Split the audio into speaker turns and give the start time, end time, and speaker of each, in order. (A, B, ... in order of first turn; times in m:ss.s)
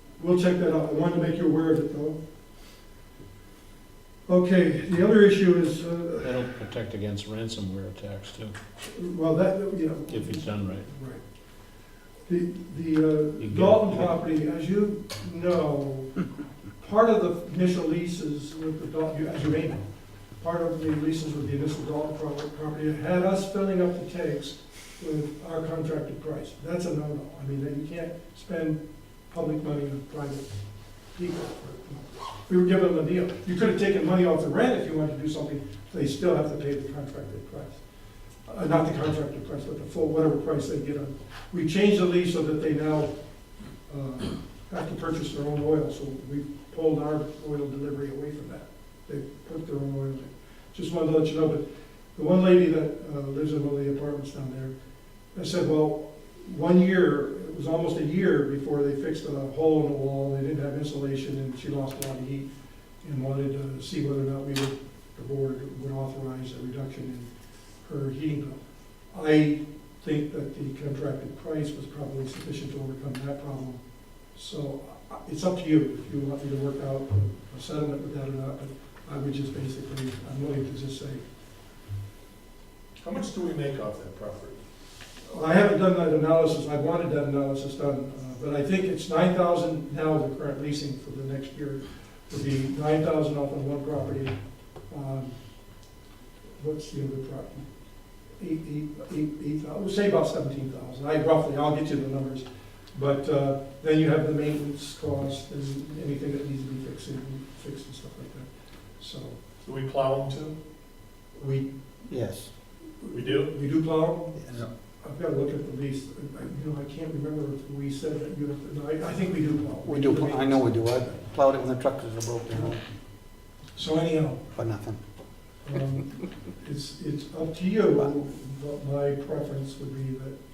0:00.2-0:02.2 A
0:04.3-0:06.3 A
0:06.3-0:08.5 B
0:08.8-0:11.2 A
0:10.2-0:10.8 B
0:12.3-0:16.2 A
0:13.4-0:13.9 B
0:16.8-0:19.8 A
0:20.4-0:28.8 A
0:29.3-0:30.5 A
0:31.1-0:37.8 A
0:38.5-0:43.1 A
0:43.9-0:51.6 A
0:52.2-0:54.7 A
0:55.4-1:02.5 A
1:03.0-1:07.3 A
1:07.8-1:13.8 A
1:14.3-1:21.2 A
1:23.0-1:24.6 C
1:25.3-1:34.4 A
1:34.9-1:35.4 A
1:36.6-1:37.7 A
1:38.4-1:49.4 A
1:49.6-1:50.6 C
1:51.4-1:51.7 A
1:52.1-1:52.5 D
1:53.0-2:00.7 A
1:53.1-1:53.5 C
1:54.4-1:54.7 D
1:59.8-2:02.8 D
2:03.8-2:04.4 A
2:04.6-2:05.0 D
2:05.6-2:10.4 A